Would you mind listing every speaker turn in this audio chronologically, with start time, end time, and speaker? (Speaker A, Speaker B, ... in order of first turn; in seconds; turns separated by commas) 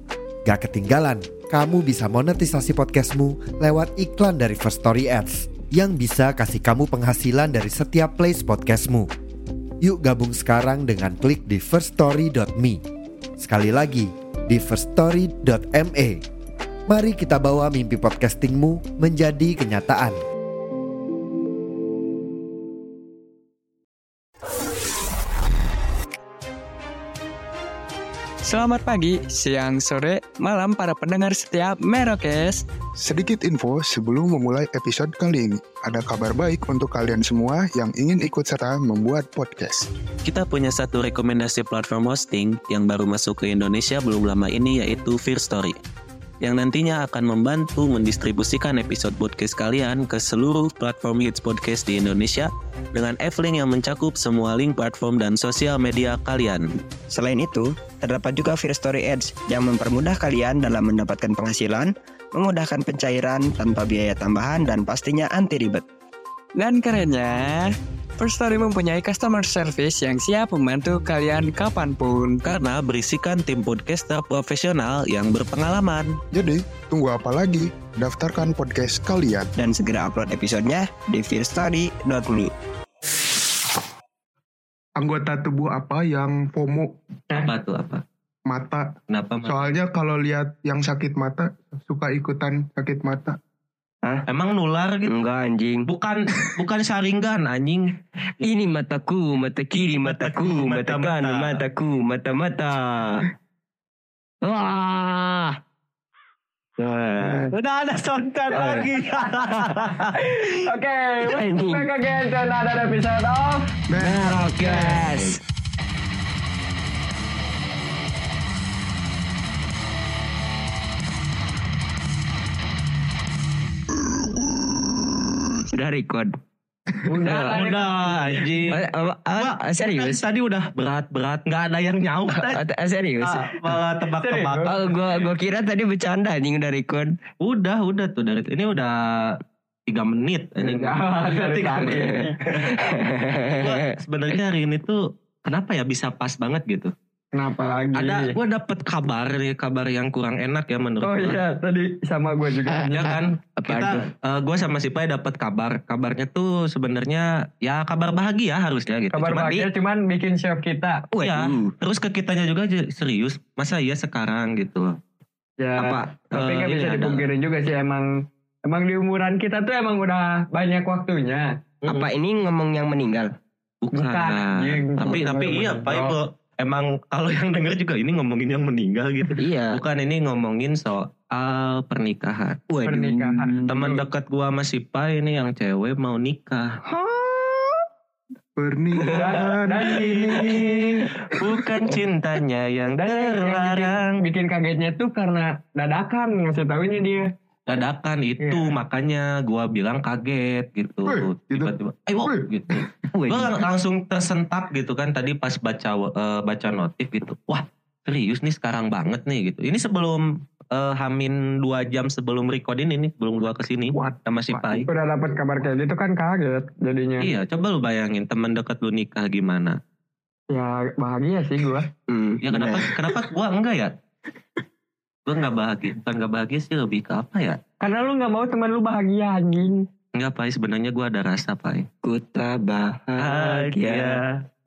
Speaker A: 0.5-9.1, Speaker A: 9.8-12.8, Speaker A: 13.4-16.2, Speaker A: 16.9-20.2, Speaker B: 28.4-32.7, Speaker C: 33.0-39.7, Speaker D: 40.2-45.8, Speaker D: 46.4-56.7, Speaker E: 57.1-65.8, Speaker B: 66.5-72.5, Speaker D: 72.4-76.2, Speaker C: 76.4-79.5, Speaker E: 79.6-82.5, Speaker C: 85.0-87.0, Speaker D: 87.3-88.0, Speaker C: 88.5-93.4, Speaker D: 89.1-89.7, Speaker D: 94.3-95.2, Speaker E: 95.1-95.9, Speaker D: 95.9-98.0, Speaker E: 98.4-103.3, Speaker D: 100.0-101.6, Speaker E: 104.6-105.5, Speaker D: 106.8-110.5, Speaker F: 110.1-113.7, Speaker E: 111.3-111.9, Speaker C: 113.9-115.0, Speaker D: 114.0-115.4, Speaker E: 114.0-115.4, Speaker E: 125.7-126.4, Speaker F: 127.1-128.4, Speaker E: 127.2-127.6, Speaker D: 127.3-128.8, Speaker E: 128.7-130.2, Speaker D: 129.4-132.6, Speaker E: 132.3-133.8, Speaker D: 133.2-135.3, Speaker F: 134.2-134.7, Speaker E: 134.7-137.2, Speaker D: 137.4-142.7, Speaker F: 140.6-142.7, Speaker E: 141.9-143.9, Speaker D: 143.6-146.9, Speaker F: 147.3-148.3, Speaker D: 148.0-151.4, Speaker F: 151.0-153.3, Speaker D: 152.9-159.7, Speaker E: 153.6-154.1, Speaker F: 159.1-161.1, Speaker E: 161.1-161.8, Speaker D: 161.2-165.0, Speaker F: 165.6-171.6, Speaker E: 165.8-166.2, Speaker D: 166.3-167.3, Speaker D: 171.8-172.1, Speaker E: 171.9-173.3, Speaker D: 173.8-182.6, Speaker F: 173.9-176.2, Speaker E: 179.3-179.8, Speaker E: 182.7-183.6, Speaker F: 182.8-184.0, Speaker D: 183.7-186.8, Speaker E: 186.9-187.7, Speaker C: 188.6-190.8, Speaker E: 188.9-189.3, Speaker F: 189.1-190.7, Speaker D: 189.9-194.2, Speaker E: 190.6-191.0, Speaker F: 193.0-197.3, Speaker D: 197.7-214.9, Speaker F: 198.4-198.7, Speaker C: 201.1-201.7, Speaker C: 202.2-202.9, Speaker E: 203.1-203.6, Speaker C: 213.9-214.8, Speaker F: 214.9-217.3, Speaker D: 217.2-219.8, Speaker F: 220.5-221.9, Speaker E: 222.1-223.1, Speaker D: 222.5-223.9, Speaker D: 225.3-227.6, Speaker F: 227.8-229.9, Speaker D: 230.1-231.9, Speaker E: 232.0-234.2, Speaker D: 233.2-234.4